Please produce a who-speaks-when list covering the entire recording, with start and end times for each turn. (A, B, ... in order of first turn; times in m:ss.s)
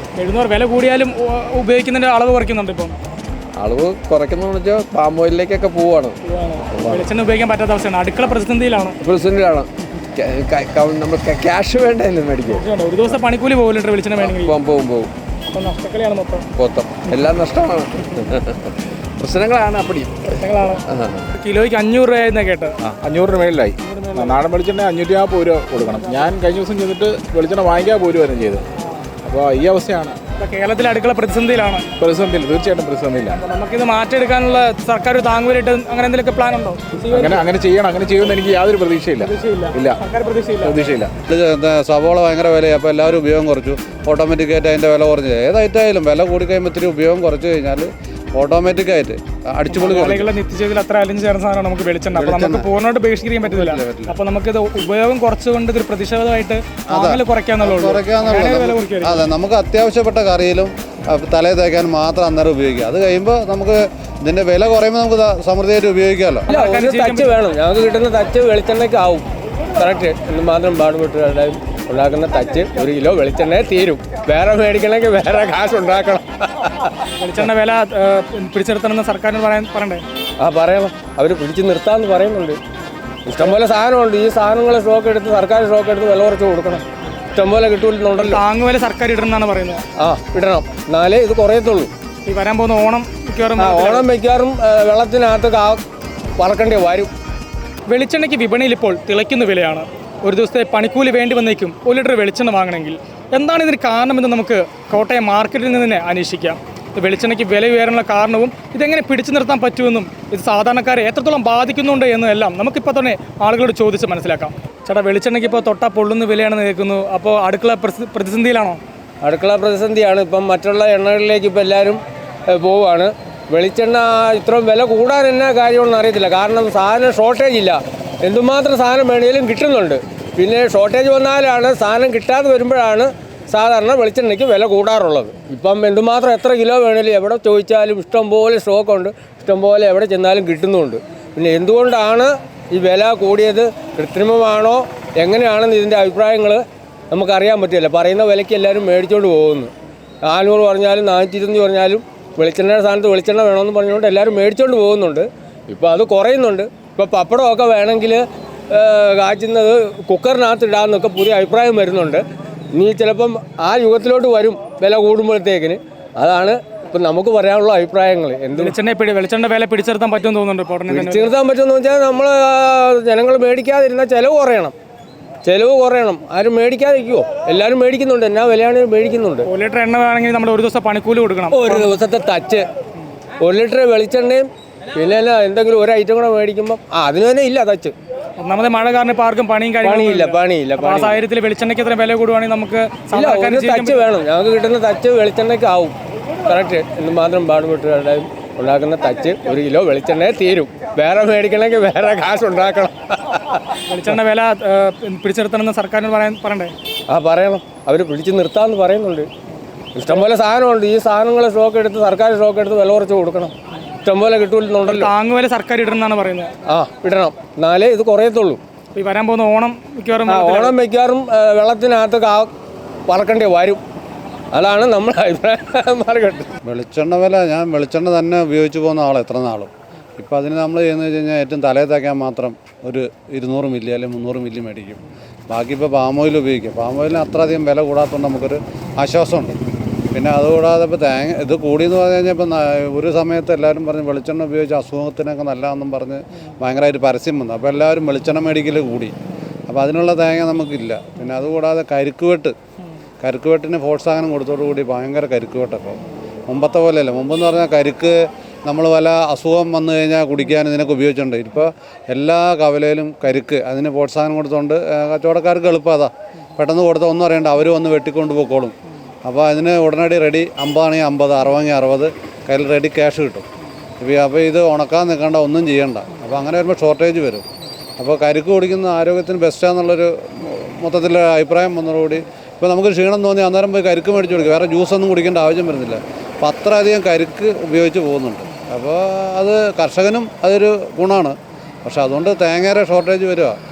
0:00.2-0:03.0 A
0:03.6-0:06.2 B
0:06.2-0:09.0 A
0:06.7-0:07.0 B
0:09.0-0:13.1 B
0:12.5-0:14.5 A
0:14.2-0:15.1 B
0:15.5-0:16.4 A
0:16.6-0:21.3 B
0:20.4-0:20.8 A
0:21.4-0:22.7 A
0:23.0-0:28.6 C
0:23.8-0:24.4 A
0:29.2-0:30.2 C
0:30.4-0:31.8 A
0:32.0-0:33.4 C
0:33.4-0:37.4 A
0:37.1-0:40.0 C
0:39.2-0:40.9 A
0:40.6-0:41.1 C
0:41.3-0:50.3 D
0:49.7-0:59.2 A
0:52.2-0:52.7 D
0:53.4-0:54.1 D
0:56.9-1:06.5 D
1:06.5-1:07.4 A
1:06.5-1:09.2 E
1:09.8-1:16.9 E
1:17.1-1:20.0 A
1:20.4-1:22.6 E
1:23.3-1:28.4 E
1:28.2-1:29.8 A
1:30.0-1:31.9 E
1:32.2-1:34.1 A
1:33.6-1:35.8 E
1:36.4-1:37.1 E
1:37.9-1:58.8 A
1:59.2-2:29.7 E
2:30.2-2:42.2 E
2:42.7-2:48.7 E
2:48.6-2:51.3 A
2:50.9-2:54.7 E
2:55.4-2:59.5 E
2:59.4-3:01.9 A
3:01.5-3:02.6 E
3:03.4-3:07.9 E
3:08.4-3:14.0 A
3:09.8-3:11.2 E
3:13.1-3:15.9 E
3:16.4-3:23.6 E
3:23.9-3:26.7 A
3:27.1-3:29.3 E
3:30.0-3:35.1 E
3:34.9-3:36.5 A
3:36.7-3:38.6 E
3:38.9-3:40.8 A
3:40.3-3:42.5 E
3:43.1-3:43.8 E
3:44.5-3:46.5 E
3:46.6-3:59.6 D
4:00.1-4:09.1 D
4:09.7-4:12.5 D
4:13.2-4:28.7 D
4:29.2-4:33.4 D
4:34.0-4:37.4 D
4:38.0-4:53.6 D